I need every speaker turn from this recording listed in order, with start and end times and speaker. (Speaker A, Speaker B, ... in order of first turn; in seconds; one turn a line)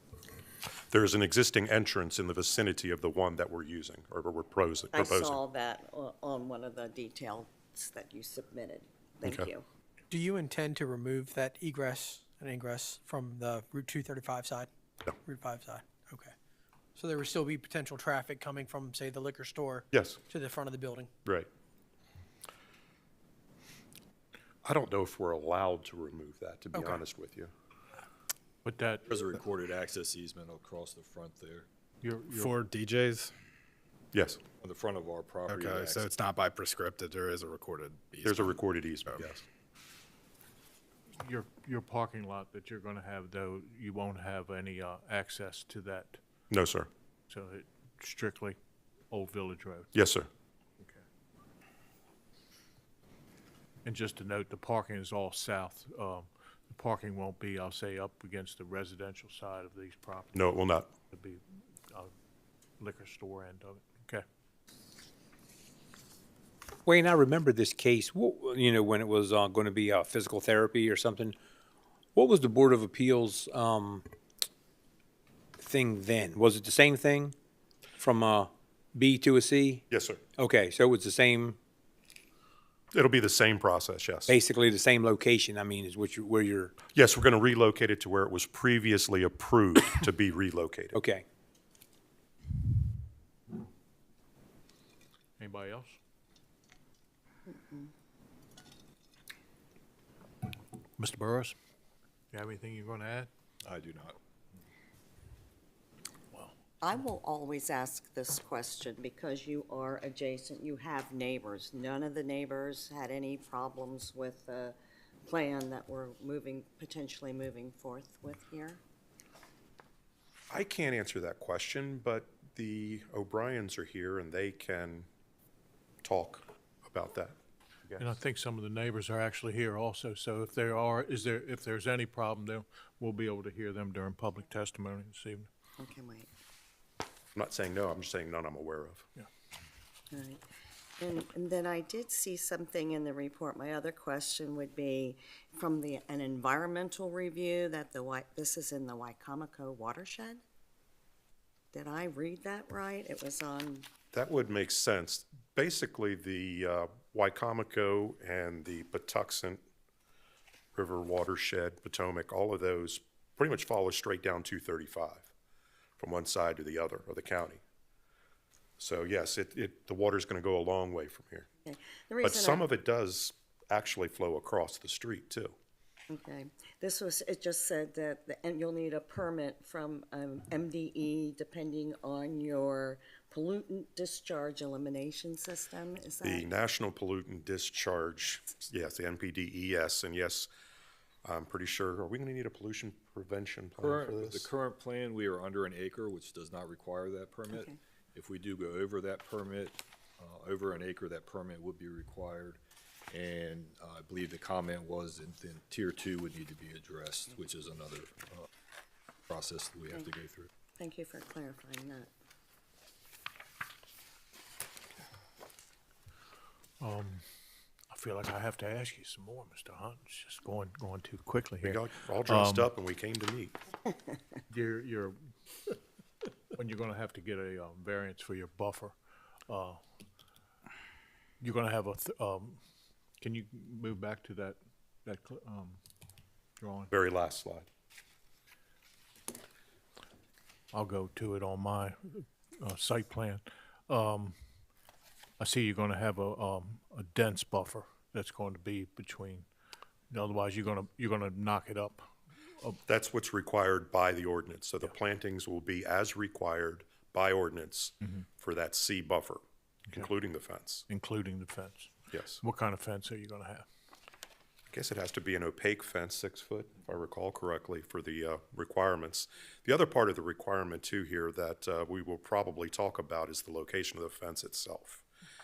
Speaker A: 0.9-5.4
Speaker B: 4.9-9.7
Speaker C: 10.1-14.7
Speaker C: 15.2-16.3
Speaker C: 17.0-21.1
Speaker A: 19.9-20.2
Speaker A: 24.6-27.5
Speaker C: 26.7-27.0
Speaker D: 28.6-29.1
Speaker E: 29.1-31.7
Speaker D: 32.0-32.6
Speaker F: 32.3-33.4
Speaker A: 34.1-34.4
Speaker E: 34.6-36.1
Speaker F: 35.5-39.3
Speaker A: 38.2-39.5
Speaker D: 41.2-46.2
Speaker A: 46.5-46.9
Speaker D: 47.3-48.6
Speaker D: 49.1-49.9
Speaker A: 49.9-50.3
Speaker D: 53.9-60.4
Speaker A: 60.4-60.9
Speaker D: 61.1-62.1
Speaker D: 62.8-64.2
Speaker G: 66.8-71.3
Speaker G: 72.2-74.0
Speaker G: 75.6-77.3
Speaker G: 78.0-79.8
Speaker A: 79.9-80.2
Speaker G: 80.4-81.6
Speaker A: 82.9-84.4
Speaker G: 84.3-86.7
Speaker A: 86.9-91.0
Speaker G: 91.0-91.2
Speaker D: 95.4-96.0
Speaker B: 97.5-97.9
Speaker D: 101.0-101.5
Speaker D: 102.3-103.3
Speaker E: 103.6-104.2
Speaker B: 106.8-118.8
Speaker A: 120.5-125.1
Speaker A: 126.0-127.4
Speaker D: 128.0-135.5
Speaker B: 135.8-136.3
Speaker A: 137.3-139.1
Speaker B: 140.1-140.4
Speaker B: 141.0-150.4
Speaker B: 151.7-153.9
Speaker A: 154.1-159.6
Speaker A: 160.7-165.3
Speaker A: 166.0-167.6
Speaker A: 168.8-171.5
Speaker B: 171.7-172.6
Speaker A: 172.2-175.5
Speaker B: 176.1-186.5
Speaker A: 186.2-190.5
Speaker A: 191.2-194.5
Speaker E: 193.8-208.5
Speaker E: 209.3-210.5
Speaker B: 210.8-212.1
Speaker D: 216.8-217.2
Speaker D: 217.9-222.7
Speaker A: 221.6-223.6
Speaker D: 224.5-225.2
Speaker D: 226.6-229.0
Speaker D: 229.5-229.8
Speaker D: 231.4-232.6
Speaker D: 233.2-235.8
Speaker D: 236.6-236.9
Speaker A: 236.9-237.7
Speaker D: 240.7-244.3
Speaker D: 245.4-249.5
Speaker D: 250.1-252.8
Speaker A: 252.9-260.9
Speaker D: 260.9-263.7
Speaker A: 262.1-262.4
Speaker A: 264.7-275.0